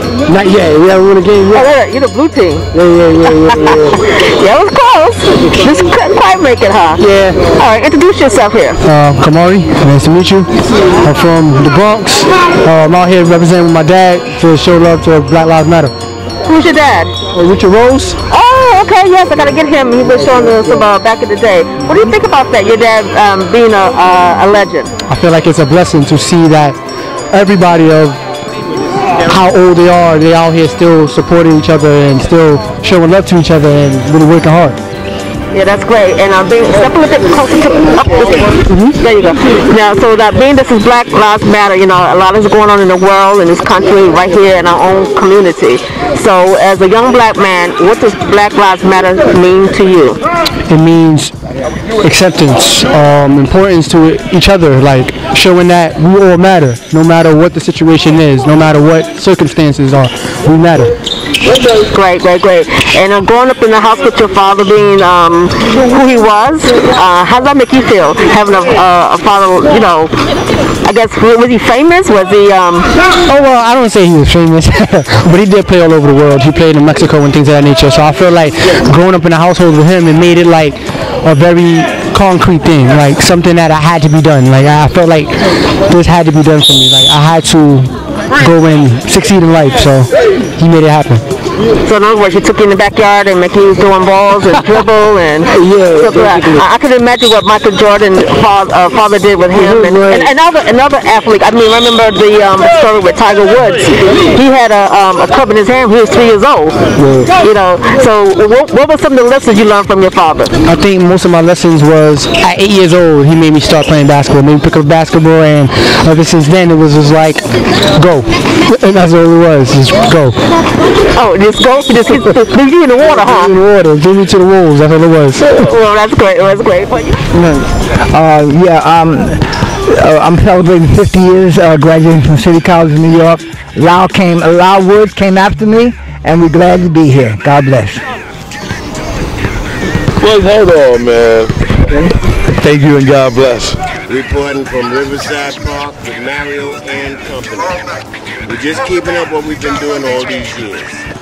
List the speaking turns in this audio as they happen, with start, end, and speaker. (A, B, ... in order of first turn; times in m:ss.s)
0:00.3-0:01.7 A
0:01.5-0:03.9 B
0:02.8-0:03.1 A
0:04.4-0:08.8 B
0:07.0-0:07.5 A
0:08.8-0:15.9 A
0:16.5-0:17.2 B
0:17.3-0:18.2 A
0:18.3-0:24.9 B
0:25.1-0:26.8 A
0:27.3-0:28.2 A
0:29.3-0:34.8 A
0:35.5-0:50.2 B
0:50.7-0:51.3 A
0:52.0-1:00.9 A
1:01.7-1:10.1 B
1:10.8-1:12.9 B
1:13.3-1:31.2 A
1:31.8-1:46.8 B
1:39.7-1:40.2 A
1:47.0-1:47.3 A
1:47.4-1:50.6 B
1:50.7-2:00.4 A
2:01.1-2:03.5 B
2:03.0-2:05.6 A
2:05.4-2:07.2 B
2:07.4-2:08.9 A
2:08.6-2:09.1 C
2:10.0-2:13.4 A
2:10.3-2:10.6 C
2:11.2-2:13.1 C
2:13.8-2:17.9 C
2:20.2-2:23.8 D
2:24.1-2:27.8 E
2:28.4-2:31.0 E